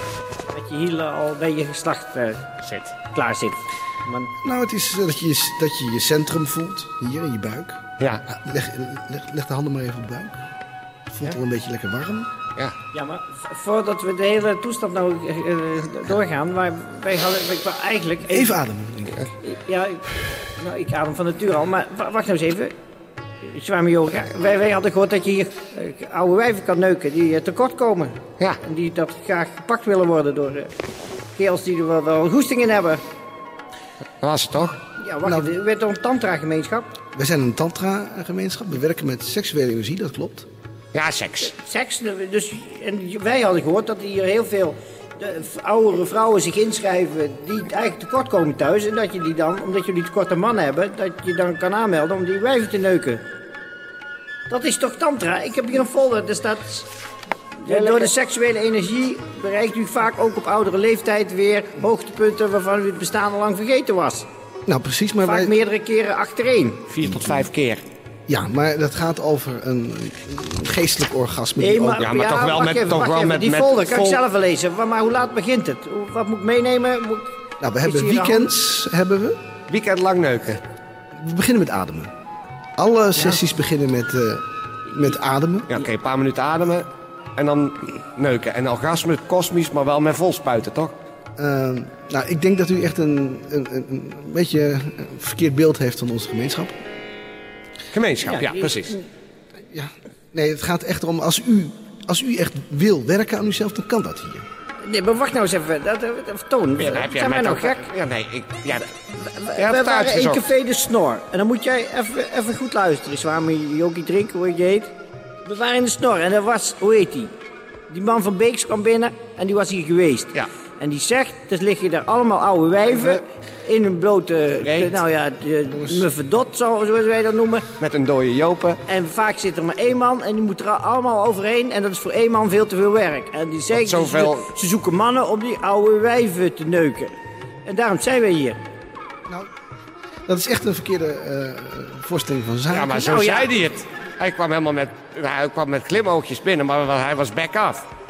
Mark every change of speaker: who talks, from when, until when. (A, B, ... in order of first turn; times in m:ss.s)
0:00.5-0:02.5 A
0:02.6-0:02.9 B
0:03.1-0:04.3 A
0:04.4-0:10.4 C
0:08.0-0:08.2 B
0:11.1-0:12.3 C
0:12.9-0:18.6 A
0:18.3-0:19.3 C
0:19.4-0:22.7 A
0:23.4-0:30.7 A
0:31.4-0:33.0 A
0:34.2-0:34.8 B
0:35.0-0:36.9 A
0:35.2-0:35.5 C
0:37.1-0:40.5 C
0:40.9-0:41.5 B
0:41.4-0:53.2 A
0:54.5-0:56.9 A
0:57.6-1:04.3 A
1:04.7-1:05.6 C
1:05.2-1:06.9 A
1:06.9-1:07.8 B
1:08.3-1:12.1 C
1:11.6-1:17.3 A
1:12.0-1:14.2 B
1:17.6-1:19.4 C
1:17.8-1:18.4 A
1:19.7-1:20.6 B
1:21.2-1:22.1 C
1:22.8-1:25.7 C
1:25.7-1:31.0 B
1:31.4-1:36.8 C
1:37.9-1:39.0 B
1:38.2-1:39.0 A
1:39.7-1:44.4 C
1:44.8-1:47.9 A
1:46.8-1:48.9 B
1:49.1-1:57.3 A
1:49.6-1:50.5 B
1:57.9-2:07.7 A
2:02.9-2:03.2 B
2:04.6-2:05.0 B
2:07.8-2:08.8 B
2:08.9-2:17.1 A
2:13.7-2:14.5 B
2:17.6-2:18.6 A
2:20.3-2:23.1 C
2:22.7-2:27.9 B
2:23.0-2:23.6 A